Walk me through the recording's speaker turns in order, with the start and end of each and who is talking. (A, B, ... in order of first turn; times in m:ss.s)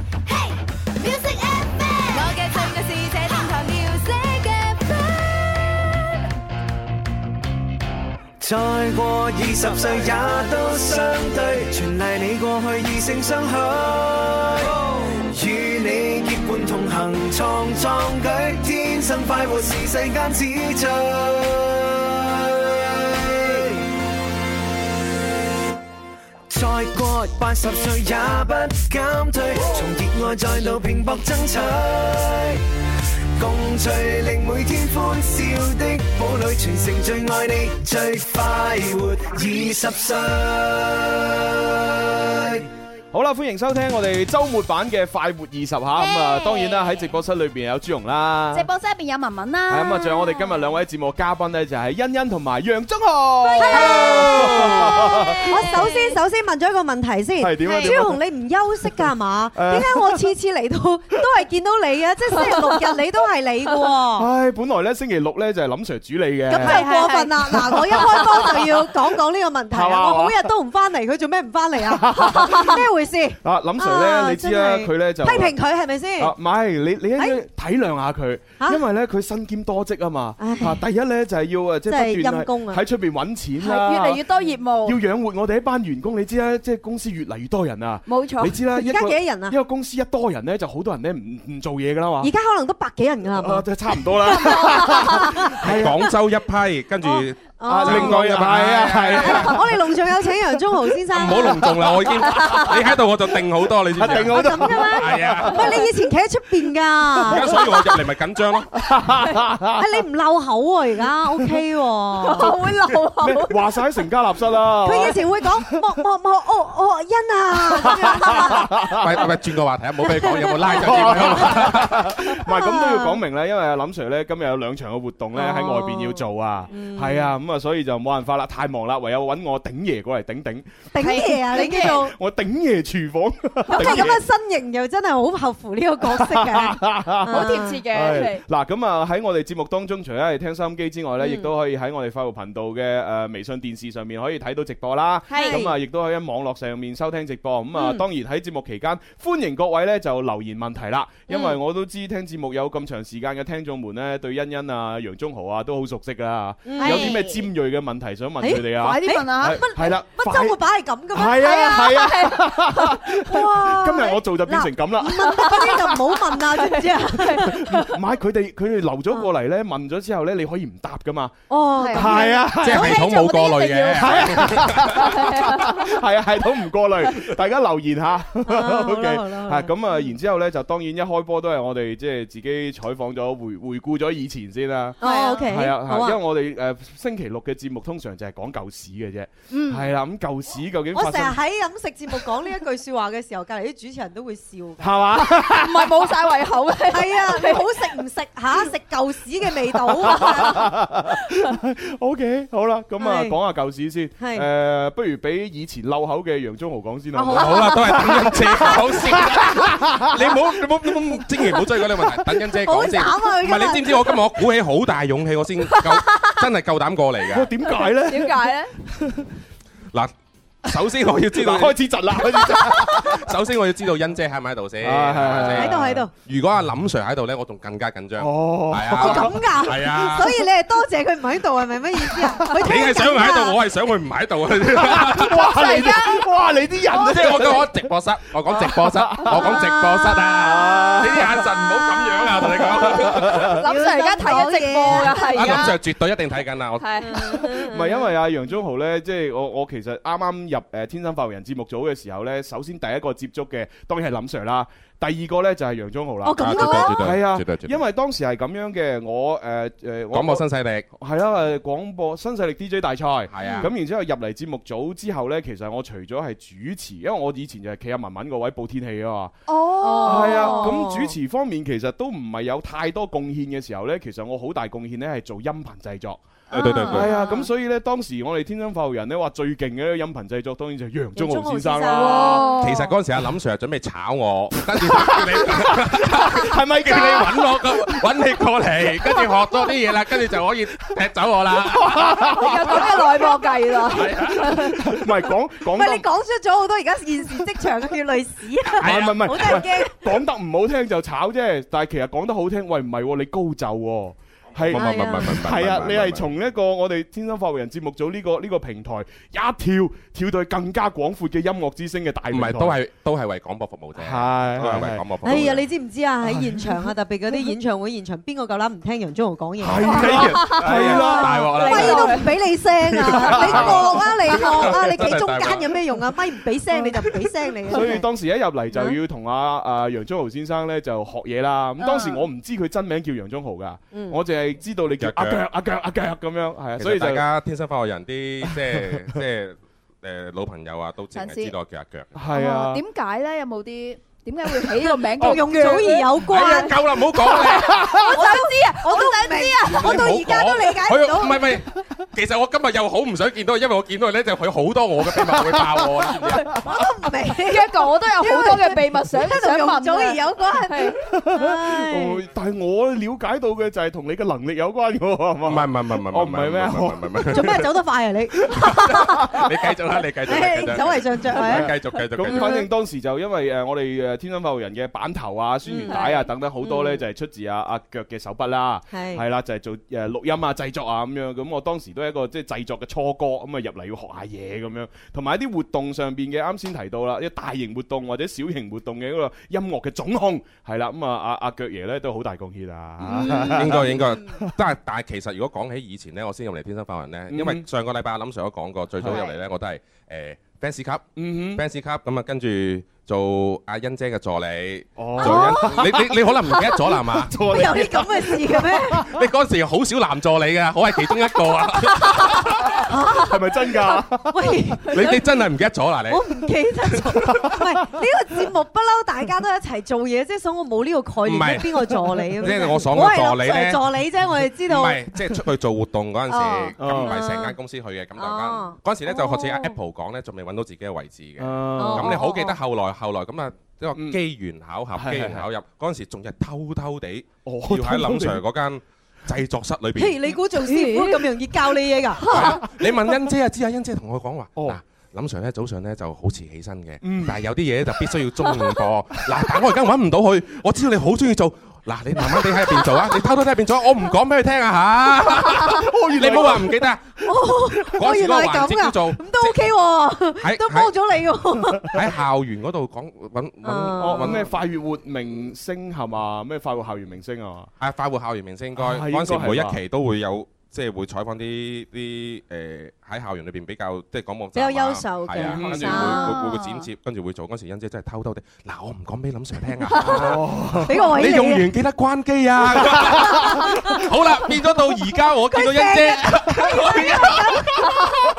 0:01.0-0:05.0 A
0:08.4-0:23.9 B
0:26.5-0:32.6 B
0:33.4-0:42.7 B
0:43.1-0:48.7 C
0:46.0-0:47.0 A
0:48.5-0:50.6 A
0:49.7-0:55.5 C
0:53.4-0:56.2 A
0:53.6-1:04.3 D
0:57.4-0:58.2 C
0:57.6-0:58.0 A
0:59.6-1:00.3 C
1:04.1-1:06.9 C
1:06.5-1:16.3 D
1:06.6-1:08.6 A
1:08.0-1:08.4 C
1:09.7-1:10.5 C
1:11.9-1:12.8 C
1:13.4-1:15.6 C
1:16.2-1:24.3 C
1:20.4-1:20.8 D
1:21.9-1:22.8 D
1:23.6-1:25.0 A
1:24.8-1:32.3 C
1:28.1-1:28.6 A
1:28.7-1:29.6 D
1:32.2-1:35.5 D
1:33.3-1:36.1 C
1:35.6-1:39.6 E
1:37.0-1:38.2 D
1:37.7-1:39.7 C
1:39.2-1:41.9 D
1:41.1-1:45.7 E
1:44.0-1:45.6 C
1:44.0-1:47.7 D
1:47.3-1:48.7 E
1:48.8-1:49.8 C
1:49.8-1:52.6 D
1:52.2-1:53.6 A
1:52.4-1:55.6 C
1:54.8-1:59.0 D
1:57.7-1:59.1 C
1:58.9-2:02.2 E
2:00.2-2:01.8 D
2:00.6-2:14.2 C
2:02.5-2:03.2 D
2:05.3-2:07.3 D
2:10.9-2:12.2 D
2:11.0-2:12.0 A
2:13.7-2:17.8 D
2:13.8-2:14.0 A
2:16.0-2:40.6 C
2:17.3-2:18.4 A
2:21.2-2:21.5 D
2:25.3-2:25.6 A
2:25.4-2:25.7 D
2:31.3-2:31.6 D
2:36.6-2:37.2 D
2:36.8-2:37.5 A
2:38.4-2:42.4 D
2:38.5-2:39.7 A
2:41.1-2:46.2 C
2:41.6-2:42.8 A
2:43.2-2:47.7 D
2:46.6-2:47.6 A
2:47.3-2:51.4 C
2:51.5-2:53.8 D
2:51.8-2:52.3 A
2:51.9-2:53.0 C
2:52.6-2:55.1 E
2:52.8-2:54.2 A
2:54.0-3:11.4 C
2:55.0-2:55.9 A
2:58.5-2:59.7 D
3:05.0-3:06.2 D
3:05.0-3:05.4 A
3:09.5-3:09.9 A
3:10.9-3:15.0 D
3:14.8-3:16.1 C
3:15.2-3:17.9 A
3:16.9-3:20.7 D
3:19.9-3:28.1 C
3:23.0-3:23.4 D
3:24.2-3:24.5 D
3:27.2-3:27.8 D
3:27.3-3:37.5 E
3:28.9-3:30.2 C
3:32.6-3:34.2 D
3:35.8-3:36.4 A
3:37.3-3:39.3 C
3:37.8-3:38.7 A
3:40.6-3:41.8 E
3:41.4-3:43.3 C
3:42.5-3:50.3 E
3:44.8-3:46.0 C
3:45.4-3:46.1 D
3:48.2-3:50.3 C
3:48.9-3:53.6 D
3:52.1-3:52.5 C
3:52.6-3:55.9 E
3:54.7-3:57.8 C
3:55.3-3:56.3 A
3:56.9-3:57.2 A
3:57.0-4:03.5 E
3:58.5-4:01.5 C
4:02.3-4:02.7 C
4:02.9-4:05.8 A
4:03.6-4:05.7 D
4:05.3-4:07.2 E
4:06.8-4:07.7 A
4:07.0-4:08.1 D
4:07.6-4:20.4 C
4:16.2-4:17.1 D
4:16.4-4:17.8 E
4:20.1-4:20.9 E
4:21.0-4:29.3 C
4:23.3-4:23.7 E
4:29.5-4:30.8 A
4:29.8-4:31.2 D
4:30.0-4:36.3 C
4:36.5-4:37.4 A
4:36.5-4:37.1 E
4:36.8-4:42.5 C
4:37.0-4:37.4 D
4:41.2-4:42.5 D
4:41.9-4:43.0 A
4:42.6-4:52.9 E
4:44.7-4:48.2 C
4:49.0-4:49.4 C
4:51.7-4:53.2 C
4:52.2-4:54.9 A
4:53.8-4:54.7 E
4:54.5-4:56.1 C
4:55.7-5:00.1 D
4:58.8-4:59.6 E
4:58.8-5:12.8 C
5:04.6-5:06.3 E
5:04.7-5:05.4 D
5:12.3-5:15.7 E
5:14.0-5:15.1 C
5:15.2-5:28.1 D
5:16.3-5:16.9 C
5:19.6-5:22.0 E
5:19.6-5:22.2 C
5:20.0-5:22.3 A
5:23.0-5:25.2 C
5:23.1-5:25.8 E
5:27.7-5:37.2 C
5:31.8-5:32.3 A
5:33.9-5:34.2 D
5:35.0-5:35.4 E
5:36.8-5:42.1 E
5:38.4-5:38.9 C
5:41.1-5:41.5 A
5:42.2-5:42.8 C
5:42.2-5:46.8 A
5:44.8-5:46.8 D
5:46.3-5:47.9 E
5:47.3-5:50.0 A
5:47.5-5:48.0 C
5:48.1-5:51.5 D
5:49.6-5:56.6 E
5:56.6-6:02.2 D
5:57.4-6:01.0 A
6:01.0-6:07.7 C
6:05.4-6:07.7 E
6:07.3-6:09.4 D
6:08.5-6:12.6 E
6:10.2-6:12.7 D
6:10.8-6:34.5 C
6:15.7-6:16.0 D
6:15.8-6:16.3 A
6:16.6-6:16.9 D
6:18.9-6:19.2 D
6:33.0-6:47.4 E
6:33.3-6:33.6 A
6:37.3-6:37.6 C
6:39.0-6:39.3 C
6:41.2-6:41.6 C
6:45.0-6:46.4 C
6:45.2-6:46.0 D
6:46.9-6:49.1 D
6:47.1-6:49.2 C
6:49.0-6:52.6 E
6:52.7-6:55.2 D
6:53.1-6:54.9 C
6:54.9-6:57.4 E
6:56.1-7:05.0 D
6:57.3-6:57.6 C
7:01.2-7:03.9 E
7:04.7-7:20.2 E
7:06.3-7:06.8 A
7:06.8-7:07.1 C
7:06.9-7:07.6 D
7:08.2-7:09.8 D
7:11.4-7:12.2 C
7:11.8-7:12.6 D
7:14.0-7:14.2 C
7:15.0-7:15.5 C
7:17.4-7:18.4 C
7:20.0-7:22.6 D
7:20.6-7:21.2 A
7:22.2-7:22.6 A
7:22.3-7:39.6 E
7:27.0-7:27.5 C
7:35.3-7:36.9 C
7:37.2-7:42.0 D
7:40.4-7:40.9 E
7:41.8-7:44.5 E
7:43.6-7:44.4 D
7:44.0-7:47.7 C
7:47.8-8:08.1 E
7:48.8-7:49.8 C
7:54.6-7:56.4 D
7:55.4-7:56.2 C
7:55.9-7:56.9 A
8:00.0-8:01.2 C
8:00.9-8:01.7 D
8:02.8-8:03.3 C
8:05.5-8:08.0 D